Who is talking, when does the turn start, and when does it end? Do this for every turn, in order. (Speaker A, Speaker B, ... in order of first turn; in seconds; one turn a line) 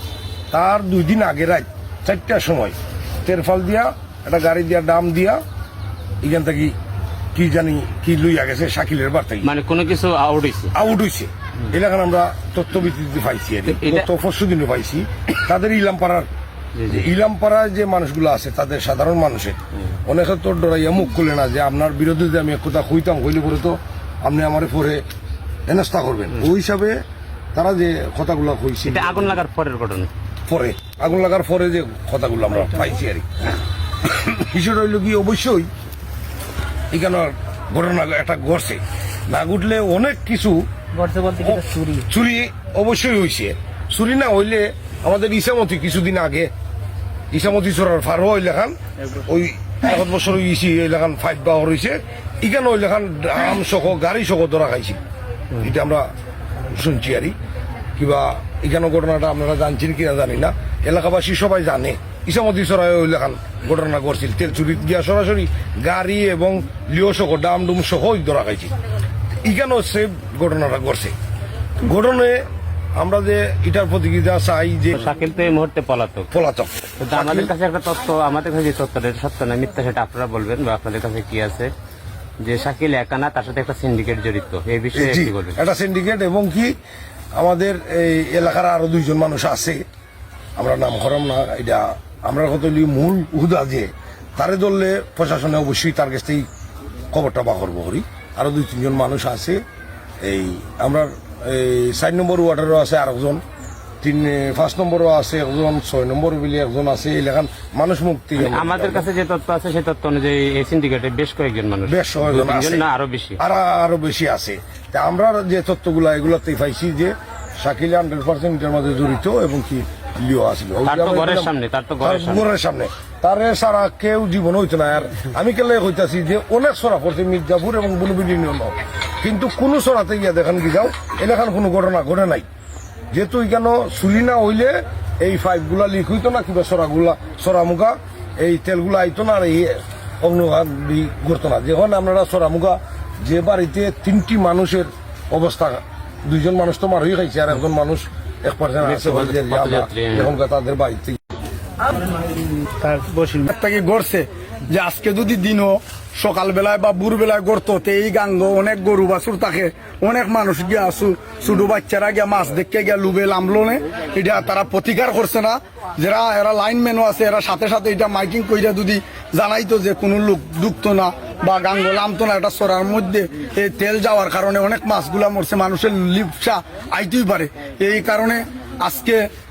Speaker A: 0.5-5.4
Speaker A: 6.2-6.7
Speaker A: 7.3-9.5
Speaker B: 9.4-10.7
Speaker A: 10.7-16.3
Speaker B: 13.7-14.1
Speaker B: 16.8-17.0
Speaker A: 16.9-25.0
Speaker A: 25.7-27.0
Speaker A: 27.5-29.4
Speaker B: 28.9-30.1
Speaker A: 30.5-33.3
Speaker A: 34.0-35.7
Speaker A: 36.9-46.5
Speaker C: 40.9-42.0
Speaker A: 47.3-55.0
Speaker A: 55.6-56.1
Speaker A: 56.7-57.4
Speaker A: 58.0-68.7
Speaker A: 69.4-71.1
Speaker A: 71.8-72.4
Speaker A: 73.0-75.1
Speaker B: 74.9-76.3
Speaker A: 76.3-77.5
Speaker B: 77.0-81.7
Speaker B: 82.4-85.6
Speaker A: 84.9-86.7
Speaker A: 87.3-89.8
Speaker A: 90.6-96.5
Speaker A: 97.1-99.6
Speaker A: 100.2-103.4
Speaker A: 104.0-109.0
Speaker B: 108.4-113.4
Speaker A: 111.9-112.9
Speaker A: 113.4-132.4
Speaker B: 120.8-122.5
Speaker A: 133.1-151.2
Speaker B: 148.8-150.3
Speaker C: 152.2-153.4
Speaker D: 153.4-179.2